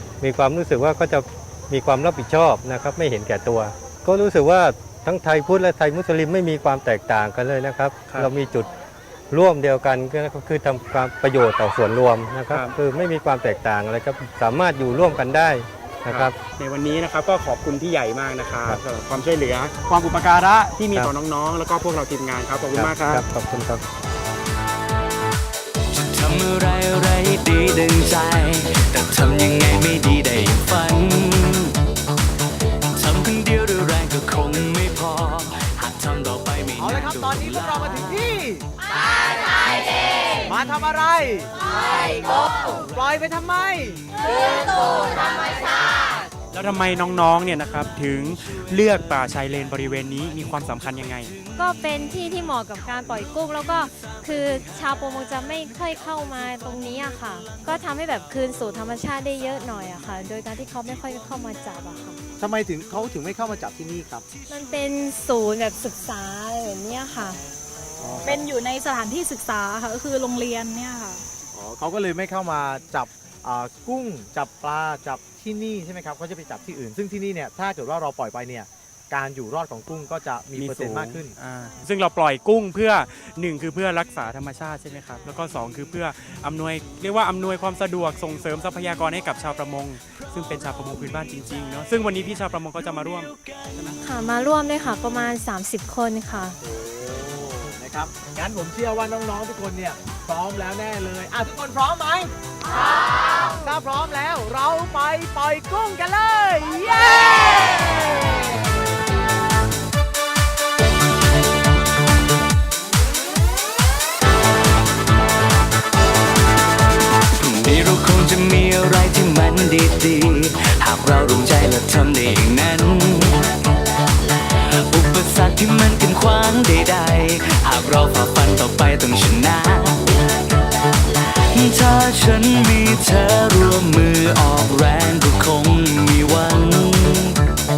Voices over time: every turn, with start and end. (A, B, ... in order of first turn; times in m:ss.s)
0:00.2-0:08.7 A
0:09.3-0:16.4 A
0:16.1-0:23.2 B
0:22.7-0:23.8 A
0:25.9-0:31.7 C
0:32.9-0:38.1 C
0:36.8-0:38.6 D
0:40.4-0:41.5 D
0:42.6-0:44.0 D
0:46.5-0:51.3 B
0:51.6-1:02.2 E
1:02.4-1:04.2 D
1:04.5-1:07.4 E
1:08.0-1:08.4 D
1:08.2-1:11.2 F
1:11.5-1:21.3 D
1:20.6-1:33.3 B
1:34.0-1:36.6 E
1:36.6-1:42.3 D
1:43.3-1:48.6 D
1:57.4-2:03.5 C
2:04.9-2:10.1 C
2:11.1-2:17.4 C